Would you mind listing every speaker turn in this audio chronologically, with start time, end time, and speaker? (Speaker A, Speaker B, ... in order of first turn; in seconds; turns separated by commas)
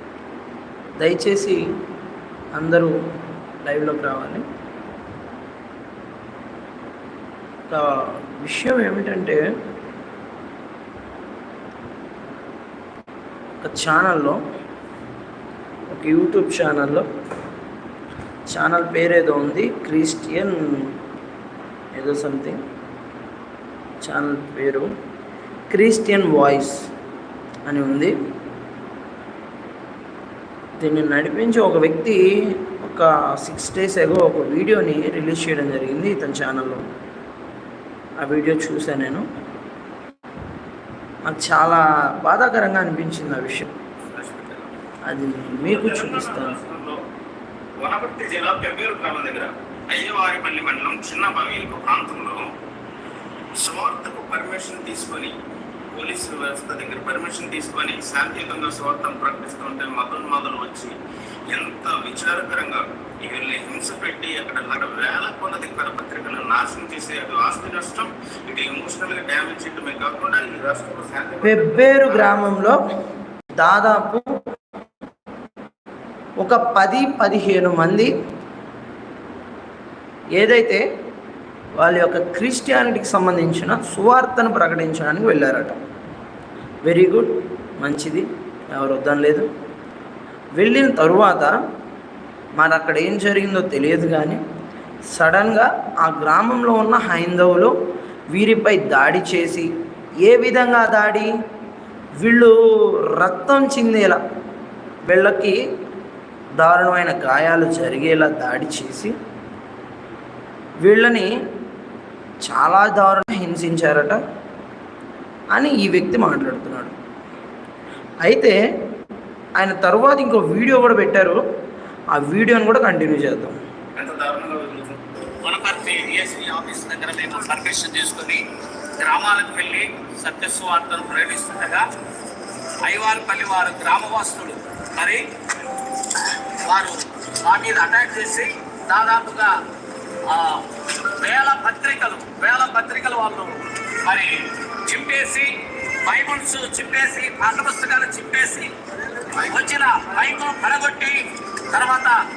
Speaker A: 1.0-1.6, Speaker A: 2.5-3.0, Speaker A: 3.6-4.4, Speaker A: 7.7-9.4, Speaker A: 13.6-14.4, Speaker A: 15.9-17.1, Speaker A: 18.5-20.9, Speaker A: 21.9-22.6, Speaker A: 24.0-24.9, Speaker A: 25.7-26.9, Speaker A: 27.7-28.1, Speaker A: 30.8-36.8, Speaker A: 38.2-39.2, Speaker A: 41.2-43.7, Speaker B: 44.1-44.7, Speaker A: 45.0-46.6, Speaker B: 45.6-47.0, Speaker B: 47.8-52.5, Speaker B: 53.6-55.3, Speaker B: 55.9-60.9, Speaker B: 61.5-72.5, Speaker A: 71.4-72.8, Speaker A: 73.6-74.3, Speaker A: 76.4-78.1, Speaker A: 80.4-80.8, Speaker A: 81.8-85.8, Speaker A: 86.8-89.5, Speaker A: 90.6-91.5, Speaker A: 92.6-94.4, Speaker A: 95.1-97.7, Speaker A: 98.3-99.7, Speaker A: 100.2-101.3, Speaker A: 102.2-102.6, Speaker A: 103.2-104.2, Speaker A: 105.1-105.6, Speaker A: 106.6-109.1, Speaker A: 110.8-111.3, Speaker A: 112.5-114.2, Speaker A: 115.5-116.9, Speaker A: 118.2-118.6, Speaker A: 119.6-121.4, Speaker A: 122.1-123.6, Speaker B: 124.0-125.0, Speaker C: 125.4-128.4, Speaker C: 129.0-131.8, Speaker C: 132.8-135.2, Speaker C: 136.2-139.5, Speaker C: 140.3-140.7, Speaker C: 141.2-145.5, Speaker C: 146.1-148.7, Speaker C: 149.3-151.2, Speaker C: 151.7-152.2